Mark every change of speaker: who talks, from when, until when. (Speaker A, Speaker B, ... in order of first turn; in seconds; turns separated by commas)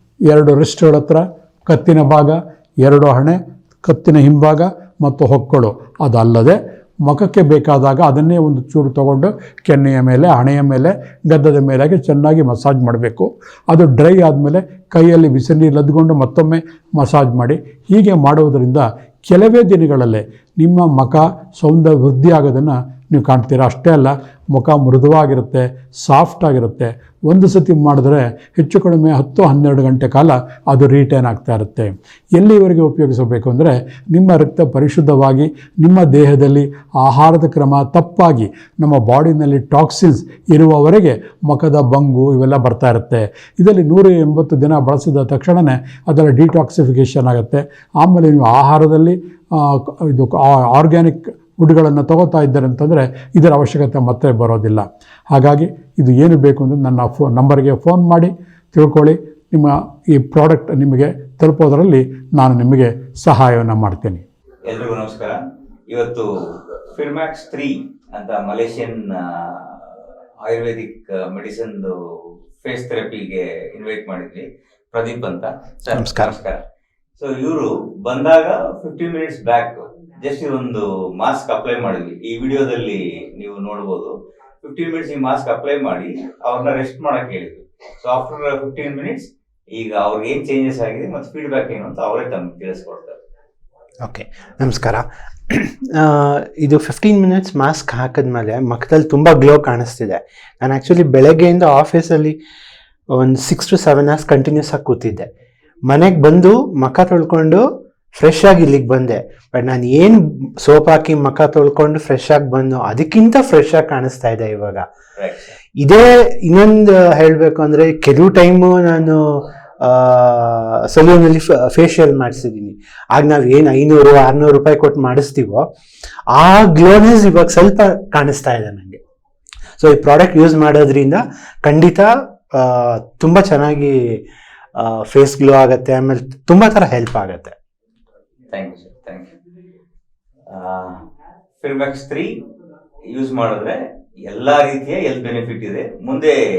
Speaker A: 0.3-64.2, Speaker B: 64.6-72.0, Speaker B: 72.6-76.6, Speaker C: 75.9-76.3, Speaker B: 77.2-93.2, Speaker C: 94.0-102.4, Speaker C: 103.1-105.3, Speaker C: 105.8-107.6, Speaker C: 108.2-114.8, Speaker B: 115.2-115.5, Speaker C: 115.8-125.7, Speaker C: 126.3-129.0, Speaker C: 129.8-134.2, Speaker C: 134.7-137.5, Speaker B: 138.5-139.3, Speaker B: 140.5-141.0, Speaker B: 141.6-142.4, Speaker B: 143.1-146.3